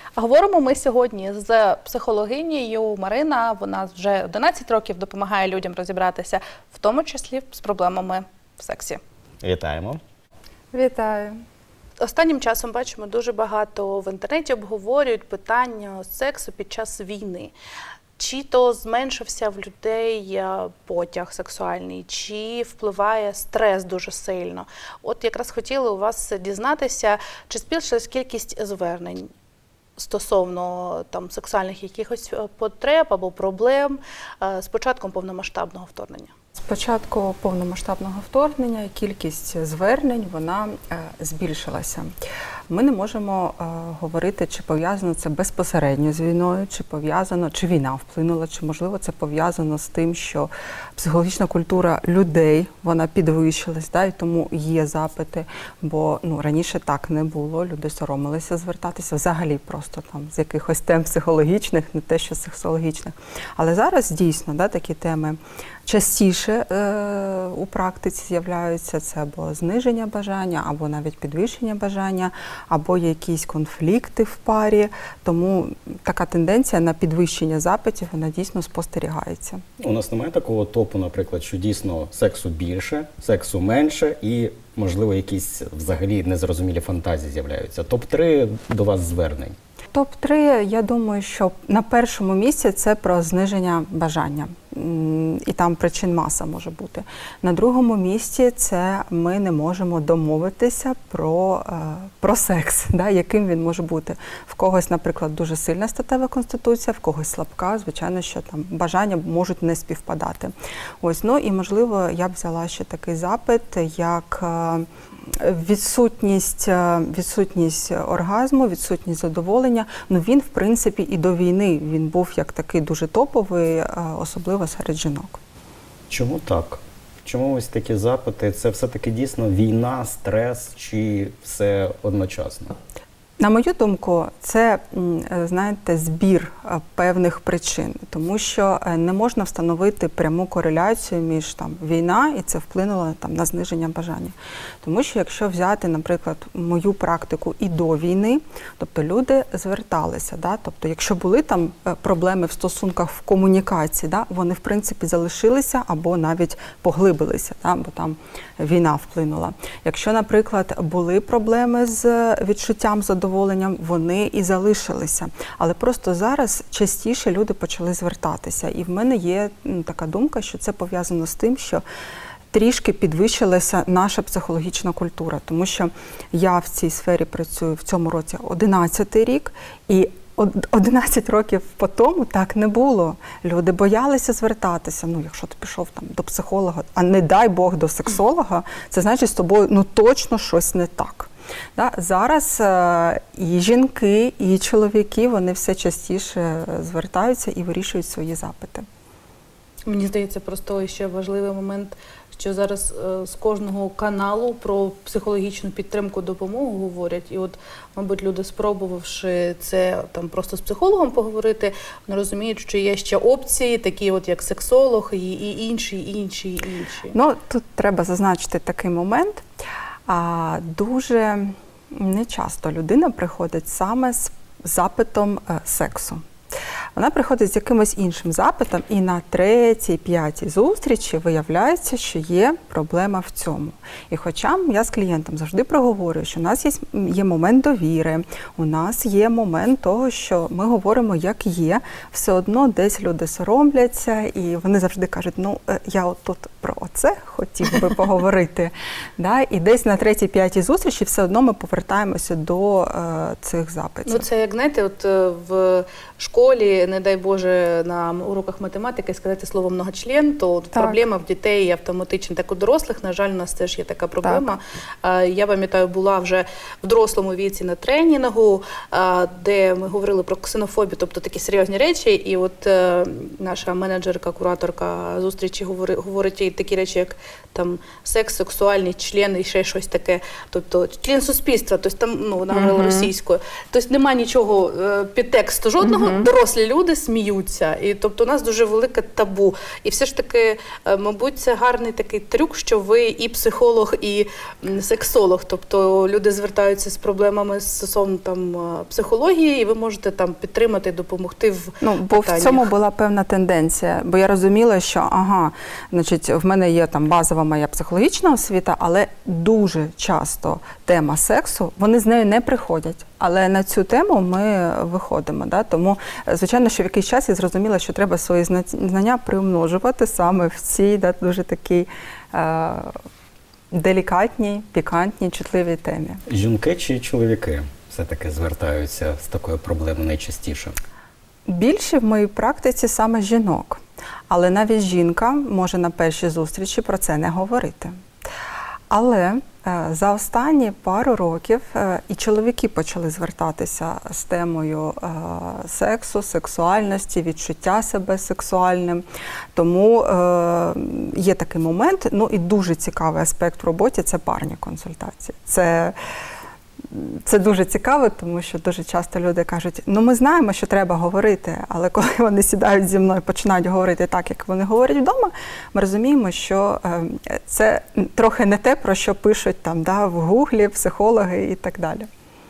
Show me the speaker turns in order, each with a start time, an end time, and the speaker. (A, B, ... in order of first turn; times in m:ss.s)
0:00.2-0:09.0 A
0:09.4-0:10.0 B
0:10.7-0:11.4 C
0:12.0-0:17.5 A
0:18.2-0:29.3 A
0:30.0-0:36.3 A
0:36.5-0:42.1 C
0:42.7-1:19.6 C
1:19.8-1:29.6 B
1:29.9-2:05.4 C
2:06.1-2:12.8 B
2:13.4-2:51.8 C
2:52.5-3:18.8 C
3:19.8-3:37.1 A
3:37.1-3:39.4 C
3:40.1-3:46.2 C
3:46.9-4:14.2 C
4:14.0-5:02.7 A
4:20.7-4:21.0 C
4:24.2-4:24.5 C
4:42.5-4:43.1 C
4:45.8-4:46.3 C
5:01.8-5:23.0 C
5:23.7-5:26.2 C
5:26.3-5:30.8 B
5:31.5-5:38.0 C
5:38.9-5:49.0 C
5:49.5-5:55.9 C
5:56.8-6:12.1 C